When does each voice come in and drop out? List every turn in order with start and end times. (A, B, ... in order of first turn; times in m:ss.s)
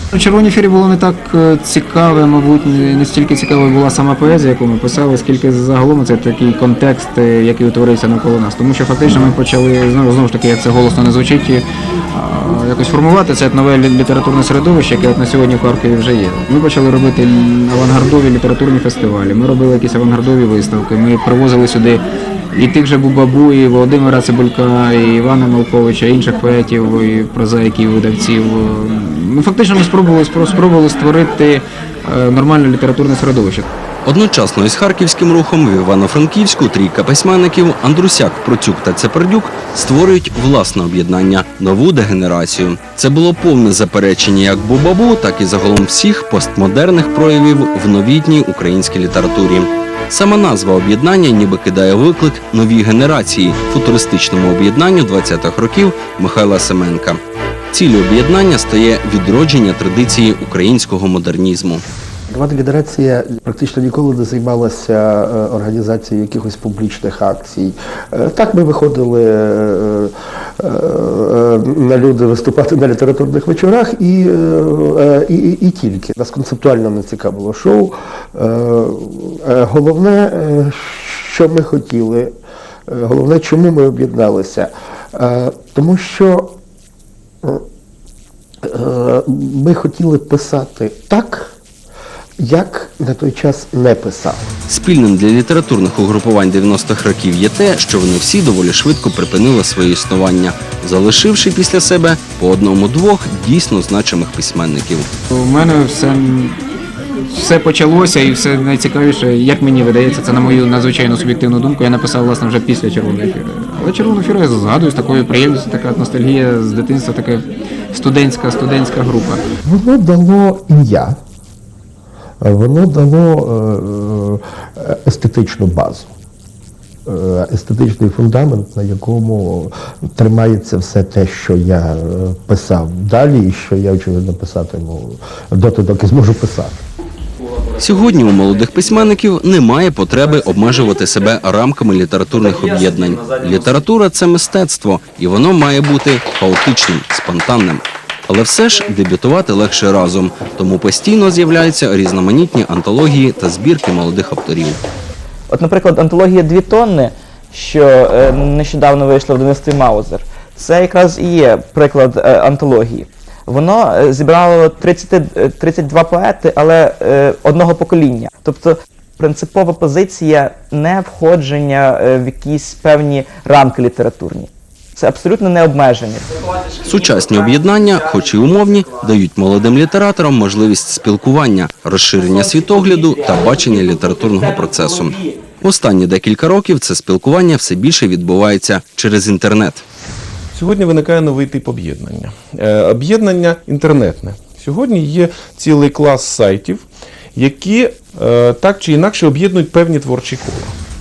0:00.1-0:33.7 A
0:34.0-0:57.2 B
0:57.7-1:01.8 B
1:02.3-1:22.3 C
1:22.9-1:26.6 C
1:28.6-1:31.6 C
1:32.4-1:34.4 C
1:34.7-1:45.1 B
1:45.3-1:46.6 A
1:47.3-1:59.4 A
1:59.6-2:01.2 C
2:02.4-2:06.1 C
2:07.1-2:16.8 C
2:17.8-2:34.8 B
2:35.5-2:56.3 D
2:56.8-3:09.8 B
3:02.3-3:05.4 D
3:10.5-3:20.8 E